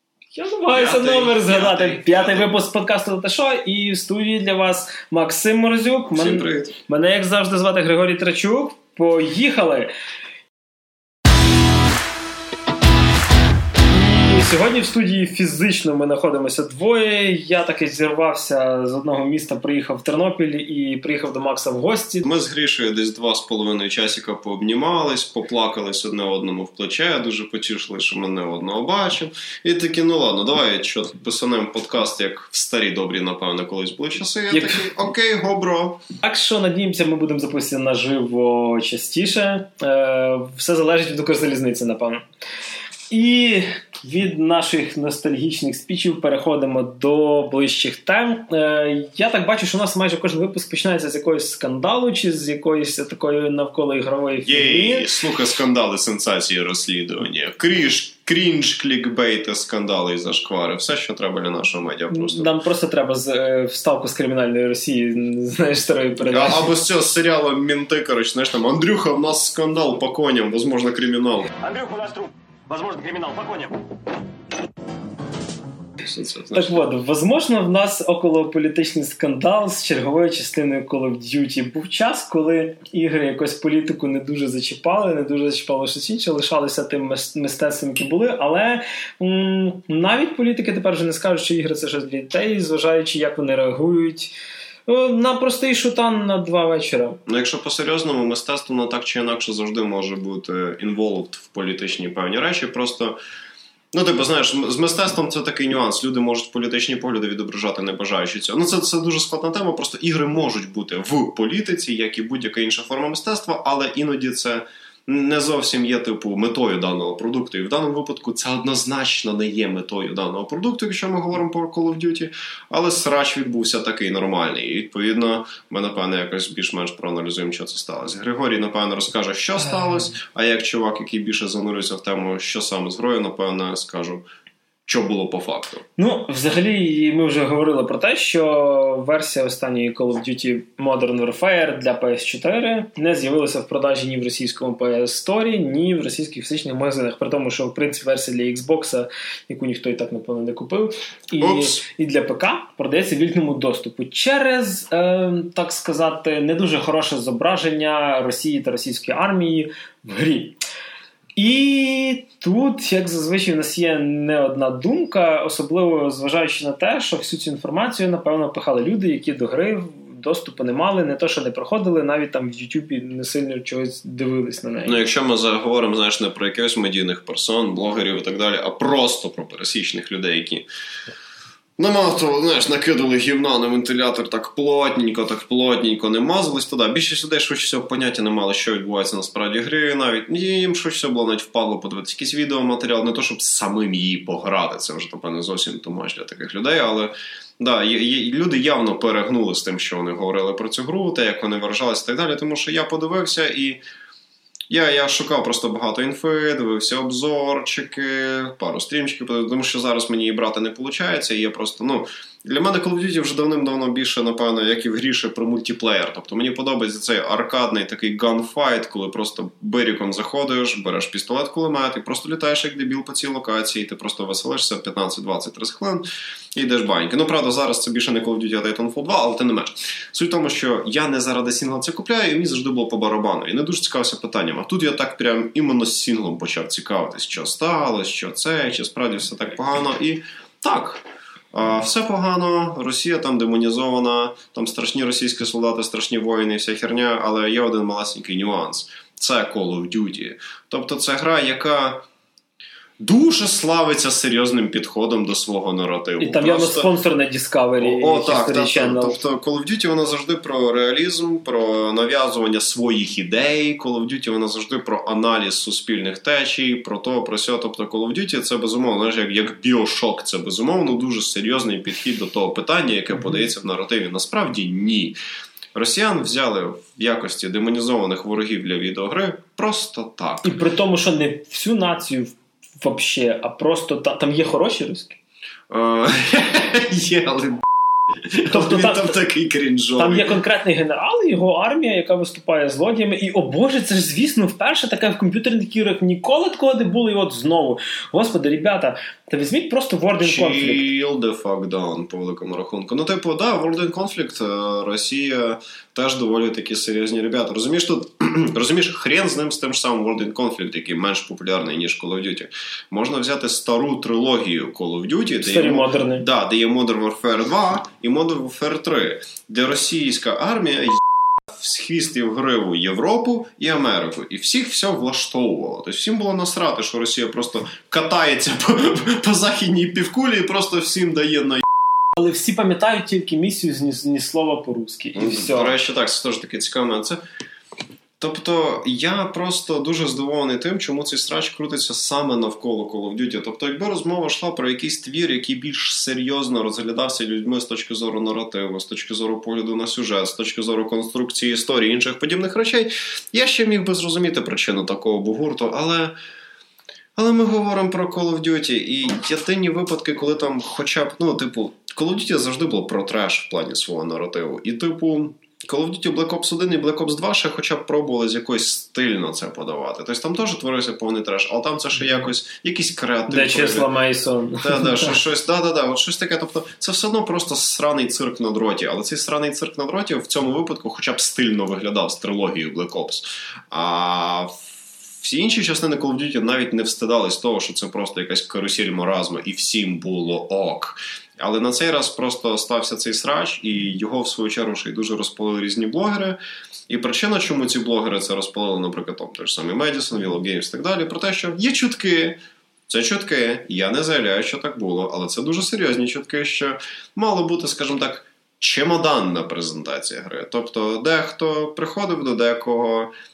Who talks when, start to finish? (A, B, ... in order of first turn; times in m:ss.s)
0:00.3-0:09.9 A
0:00.7-0:02.6 B
0:06.1-0:06.8 B
0:13.9-0:22.3 A
0:22.2-0:36.0 B
0:34.5-0:34.9 A
0:36.2-0:42.2 A
0:43.1-0:55.1 A
0:54.4-1:02.6 B
1:02.1-1:06.7 A
1:06.2-1:11.5 B
1:11.6-1:13.8 C
1:16.0-1:16.8 B
1:16.5-1:34.3 A
1:34.9-1:37.2 A
1:37.3-1:43.2 B
1:43.9-2:14.2 B
2:14.8-2:15.8 B
2:16.0-2:40.6 A
2:31.4-2:31.8 B
2:41.4-2:55.0 A
2:54.8-3:00.7 B
3:01.8-3:23.8 B
3:24.7-4:12.0 B
4:13.0-4:16.9 B
4:16.2-4:19.2 A
4:17.8-4:35.2 B
4:35.7-4:40.6 B
4:40.4-4:45.2 A
4:45.7-4:50.4 B
4:48.5-4:49.2 A
4:50.0-5:00.9 A
5:00.2-5:31.7 B
5:15.4-5:16.2 A
5:32.2-5:35.8 A
5:35.1-5:37.2 B
5:38.2-5:56.1 B
5:57.2-6:13.9 B
6:13.3-6:15.2 A
6:14.6-6:36.4 B
6:36.9-6:53.1 B